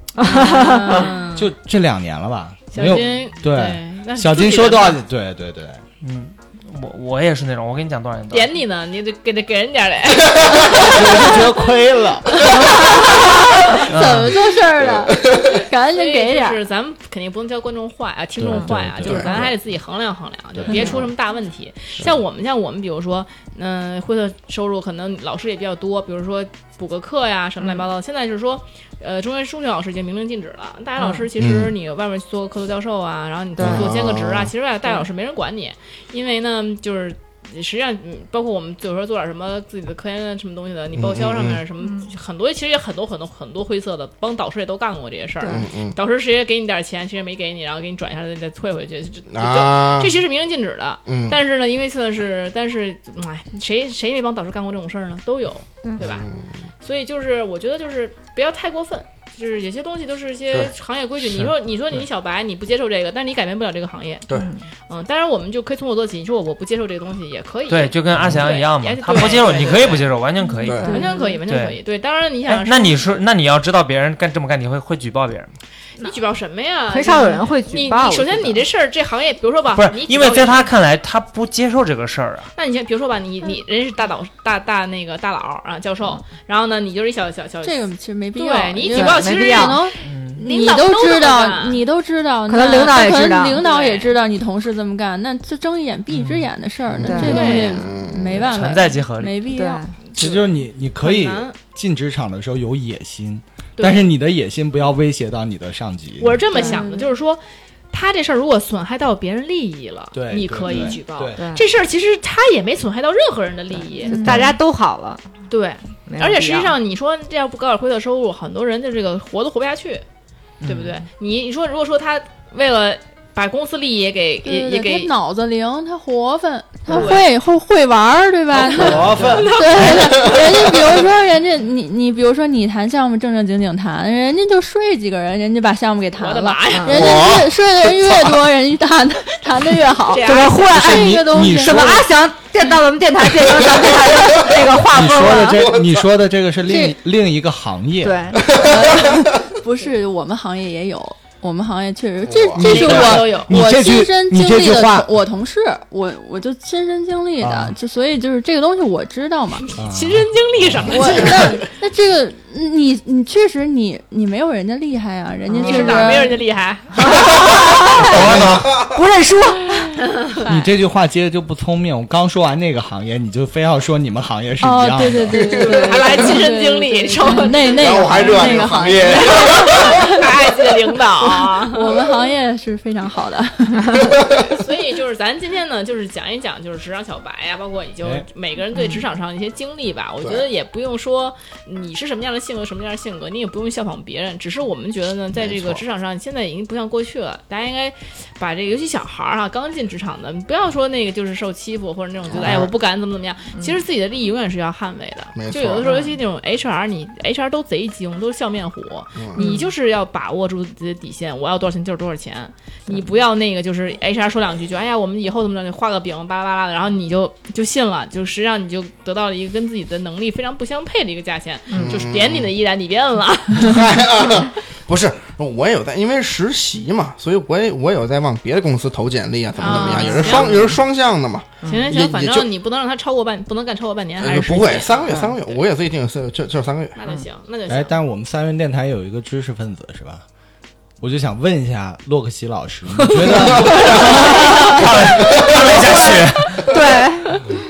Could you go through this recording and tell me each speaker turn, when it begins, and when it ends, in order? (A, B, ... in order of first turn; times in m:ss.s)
0:00.2-0:01.1 A
0:00.2-0:01.5 B
0:01.3-0:05.8 C
0:02.7-0:05.0 B
0:06.0-0:08.6 D
0:08.3-0:11.6 B
0:10.7-0:12.5 C
0:12.4-0:16.6 E
0:13.9-0:14.5 D
0:14.8-0:15.1 F
0:15.9-0:56.2 B
0:18.4-0:19.6 C
0:19.0-0:19.3 F
0:20.6-0:20.9 C
0:20.7-0:21.0 A
0:31.0-0:31.3 A
0:31.4-0:31.7 F
0:33.6-0:33.9 A
0:33.6-0:34.5 F
0:40.9-0:41.6 F
0:41.8-0:42.1 A
0:45.4-0:45.7 A
0:45.4-0:46.0 F
0:49.3-0:50.2 F
0:51.0-0:51.4 F
0:56.0-0:56.4 F
0:56.8-1:04.3 B
1:01.2-1:01.5 D
1:04.3-1:04.6 A
1:04.9-1:10.1 B
1:07.7-1:10.9 D
1:10.6-1:10.9 F
1:10.7-1:11.1 E
1:10.8-1:11.4 A
1:10.9-1:13.0 B
1:11.5-1:11.8 D
1:12.5-1:15.5 D
1:16.0-1:20.7 B
1:16.9-1:18.6 A
1:19.8-1:22.5 D
1:22.6-1:27.8 B
1:27.6-1:39.8 E
1:28.3-1:31.8 B
1:28.9-1:29.8 A
1:30.0-1:30.4 D
1:32.5-1:33.6 A
1:33.6-1:34.1 B
1:36.1-1:36.5 D
1:36.9-1:38.6 F
1:37.0-1:37.5 A
1:37.2-1:37.9 B
1:38.4-1:39.5 D
1:38.5-1:38.7 B
1:39.5-1:39.9 A
1:40.0-1:41.6 B
1:40.2-1:46.4 C
1:43.8-1:44.1 B
1:46.2-1:54.2 B
1:46.5-1:47.1 E
1:46.5-1:46.8 A
1:50.1-1:51.4 C
1:50.7-1:51.6 A
1:54.0-1:55.2 A
1:54.1-1:54.4 E
1:54.2-1:54.6 C
1:55.5-2:00.0 B
1:56.1-1:56.8 A
2:00.6-2:01.0 D
2:00.6-2:05.1 B
2:04.4-2:21.9 E
2:06.9-2:07.2 B
2:08.5-2:09.6 C
2:08.6-2:10.7 B
2:10.2-2:10.8 F
2:16.1-2:17.3 B
2:16.7-2:17.1 A
2:16.9-2:18.3 F
2:20.0-2:20.7 B
2:20.2-2:25.7 A
2:20.7-2:22.1 C
2:24.9-2:28.2 C
2:25.3-2:26.0 F
2:26.6-2:27.0 E
2:28.0-2:28.4 A
2:28.4-2:29.2 F
2:28.5-2:39.7 E
2:32.2-2:32.8 F
2:32.6-2:33.5 B
2:32.6-2:35.1 C
2:37.4-2:37.8 C
2:39.6-2:41.6 B
2:39.8-2:41.0 C
2:40.8-2:46.4 E
2:40.9-2:41.6 F
2:45.5-2:46.1 A
2:45.5-2:47.5 B
2:46.9-2:49.9 A
2:48.0-2:48.7 D
2:48.1-2:49.0 F
2:48.2-2:48.5 C
2:50.4-2:50.7 E
2:50.4-2:55.6 C
2:54.6-3:00.3 E
2:55.3-2:56.0 F
2:55.5-3:02.1 B
2:57.8-3:00.0 F
3:01.3-3:04.0 E
3:04.2-3:04.5 F
3:04.4-3:44.0 B
3:08.8-3:09.0 A
3:15.4-3:15.8 F
3:22.3-3:22.7 F
3:25.3-3:25.9 F
3:25.8-3:26.2 A
3:29.2-3:29.4 F
3:29.4-3:29.7 A
3:41.7-3:42.0 A
3:41.7-3:42.5 F
3:43.5-3:52.5 F
3:49.6-3:50.8 B
3:49.6-3:50.7 A
3:51.6-3:55.6 B
3:54.2-3:57.0 F
3:55.1-3:55.4 A
3:56.9-3:58.0 B
3:57.7-4:00.2 C
4:01.0-4:04.3 C
4:03.2-4:07.4 A
4:03.5-4:04.2 F
4:03.9-4:06.8 D
4:05.1-4:05.7 F